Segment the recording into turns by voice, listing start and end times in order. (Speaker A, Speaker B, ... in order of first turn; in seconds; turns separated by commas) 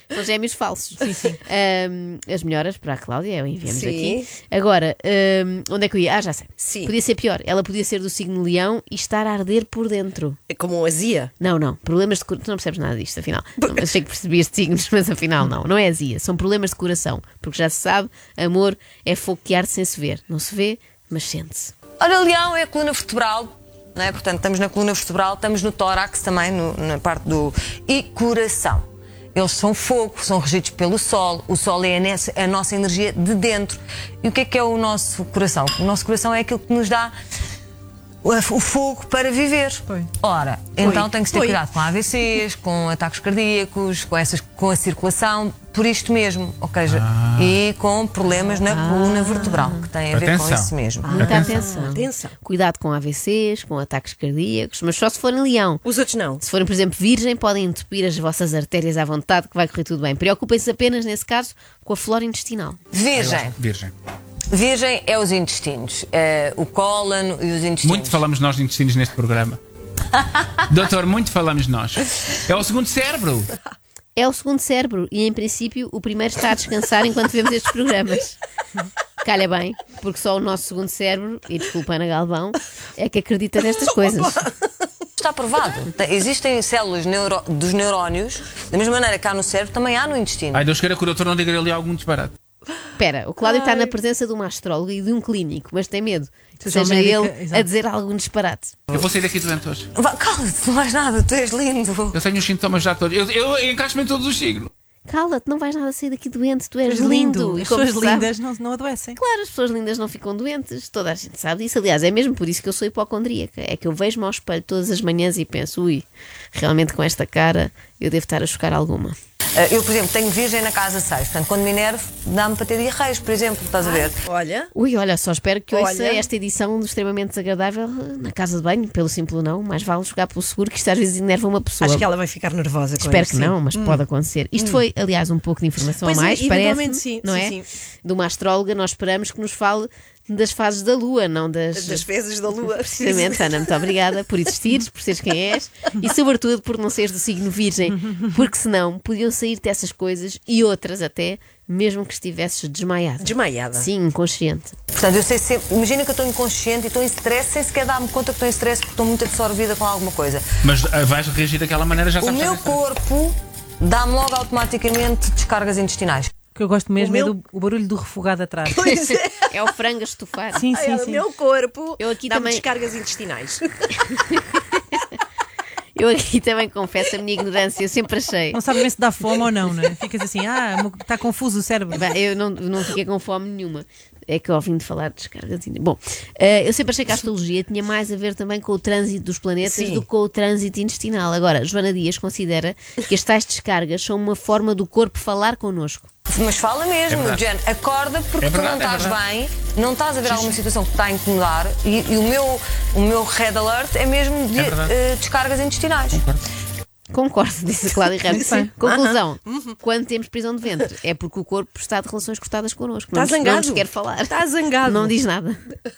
Speaker A: 0.1-10.4, Speaker B: 1.1-1.4, Speaker C: 3.7-4.3, Speaker C: 6.6-6.9, Speaker C: 10.5-11.3, Speaker A: 11.4-21.7, Speaker D: 22.0-28.8, Speaker D: 29.4-37.1, Speaker D: 38.2-51.4, Speaker C: 40.8-41.6, Speaker E: 46.9-47.6, Speaker A: 48.7-49.9, Speaker E: 50.1-50.7, Speaker C: 51.0-52.4, Speaker A: 51.1-55.8, Speaker C: 55.8-56.4, Speaker A: 56.4-62.8, Speaker D: 62.9-63.5, Speaker E: 63.1-63.9, Speaker D: 64.5-68.2, Speaker E: 67.8-69.6, Speaker E: 70.7-73.5, Speaker A: 74.2-78.4, Speaker A: 79.2-84.4, Speaker C: 84.0-84.7, Speaker D: 85.2-90.7, Speaker E: 90.5-92.3, Speaker A: 93.0-98.8, Speaker C: 93.4-93.8, Speaker B: 96.6-97.7, Speaker E: 98.9-99.9, Speaker D: 100.0-102.2, Speaker E: 102.1-104.7, Speaker A: 105.1-108.3, Speaker B: 106.9-109.2, Speaker A: 109.2-119.2, Speaker D: 119.6-124.2, Speaker C: 124.2-124.7, Speaker A: 124.7-132.1, Speaker C: 125.7-126.3, Speaker C: 131.8-134.0, Speaker A: 133.0-142.1, Speaker C: 136.0-137.7, Speaker C: 141.7-143.6, Speaker A: 142.7-154.8, Speaker C: 153.2-153.9, Speaker D: 154.9-160.4, Speaker E: 160.6-162.8, Speaker D: 162.2-166.3, Speaker B: 166.5-168.9, Speaker C: 167.0-167.3, Speaker C: 168.7-169.5, Speaker A: 168.9-170.7, Speaker B: 170.5-171.2, Speaker C: 170.7-174.1, Speaker A: 172.0-172.7, Speaker A: 175.9-178.6, Speaker B: 178.5-182.0, Speaker A: 181.9-196.1, Speaker C: 189.6-190.1, Speaker D: 196.3-206.2, Speaker E: 197.1-197.4, Speaker E: 198.4-199.2, Speaker E: 200.3-200.6, Speaker E: 204.6-204.9, Speaker E: 206.1-206.4, Speaker A: 207.1-215.6, Speaker C: 208.3-209.8, Speaker B: 208.4-208.7, Speaker C: 213.1-215.2